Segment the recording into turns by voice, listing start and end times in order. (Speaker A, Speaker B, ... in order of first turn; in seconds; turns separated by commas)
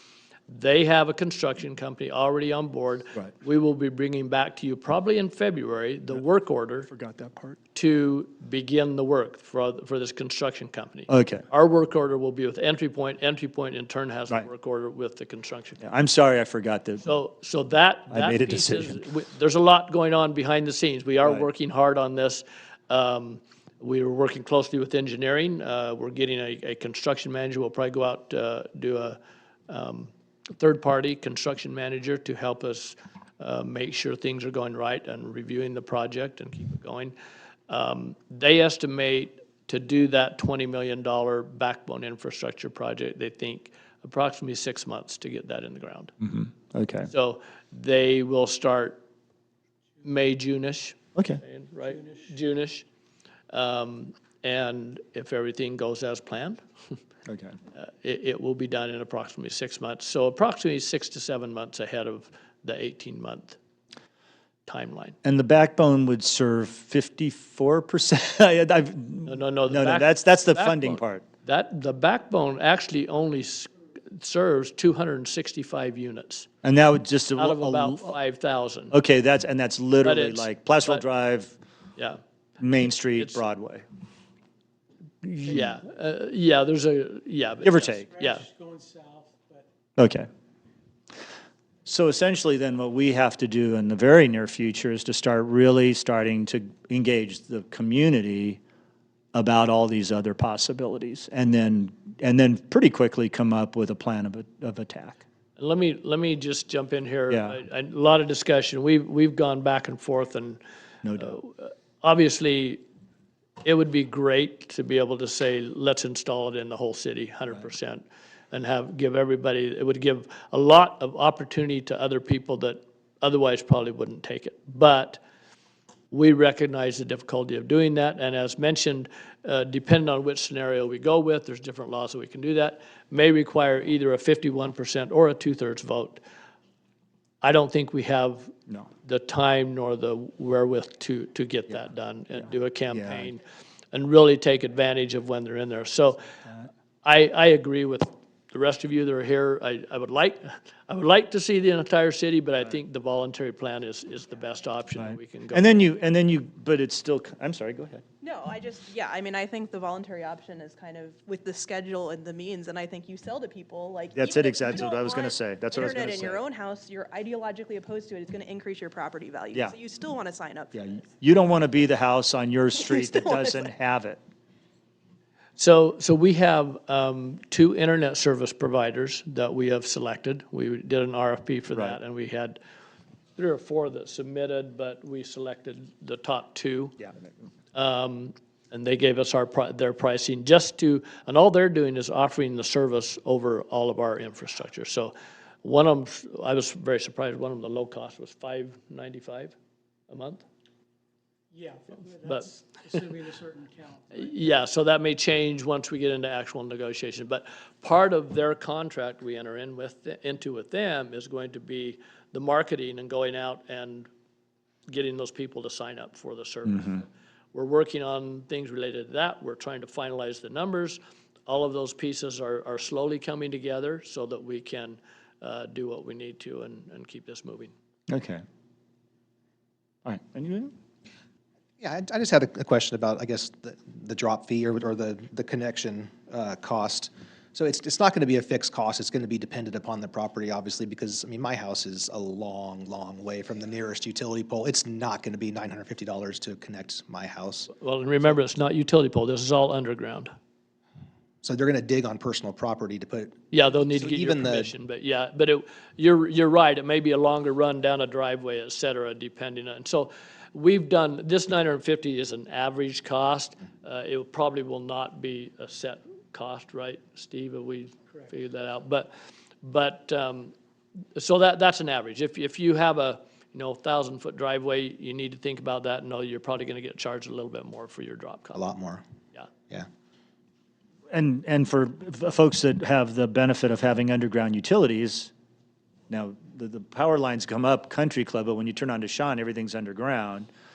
Speaker A: 0.5-6.9, Speaker B: 6.9-7.6, Speaker A: 7.8-15.8, Speaker B: 11.1-11.4, Speaker B: 15.8-17.0, Speaker A: 17.0-37.1, Speaker B: 18.1-19.0, Speaker A: 37.7-46.1, Speaker B: 46.2-47.1, Speaker A: 47.1-49.0, Speaker A: 50.0-52.9, Speaker A: 53.5-56.6, Speaker B: 57.3-57.5, Speaker A: 57.8-63.6, Speaker A: 64.7-65.2, Speaker B: 65.2-71.2, Speaker A: 69.3-76.5, Speaker B: 76.6-78.2, Speaker A: 77.4-79.0, Speaker B: 78.9-81.5, Speaker A: 80.0-81.0, Speaker B: 82.6-83.8, Speaker A: 83.1-83.4, Speaker A: 85.2-88.5, Speaker B: 85.5-85.8, Speaker B: 87.6-88.1, Speaker C: 88.5-89.6, Speaker B: 90.0-90.3, Speaker B: 91.9-98.6, Speaker B: 99.3-105.2, Speaker A: 105.6-110.6, Speaker B: 107.3-107.6, Speaker B: 111.0-111.4, Speaker A: 111.2-112.8, Speaker A: 113.6-125.2, Speaker A: 126.1-136.2, Speaker A: 137.4-143.4, Speaker B: 142.9-143.3, Speaker A: 143.9-146.2, Speaker A: 147.0-155.7, Speaker B: 155.0-158.0, Speaker D: 158.2-170.8, Speaker B: 164.2-166.4, Speaker B: 170.7-174.2, Speaker D: 172.8-173.7, Speaker A: 175.6-182.6, Speaker A: 183.4-187.0, Speaker A: 187.7-199.6, Speaker A: 200.1-200.4, Speaker C: 201.5-204.2, Speaker A: 202.2-202.5, Speaker A: 204.1-214.1, Speaker A: 214.9-227.7, Speaker B: 216.7-216.9, Speaker B: 228.1-228.4, Speaker B: 230.1-230.7, Speaker E: 231.8-247.7, Speaker A: 247.7-250.3, Speaker E: 251.4-253.4, Speaker A: 253.5-269.1, Speaker E: 253.9-254.7, Speaker A: 269.6-270.5, Speaker A: 271.1-278.7, Speaker E: 278.5-279.0, Speaker B: 281.1-285.3, Speaker B: 286.1-290.5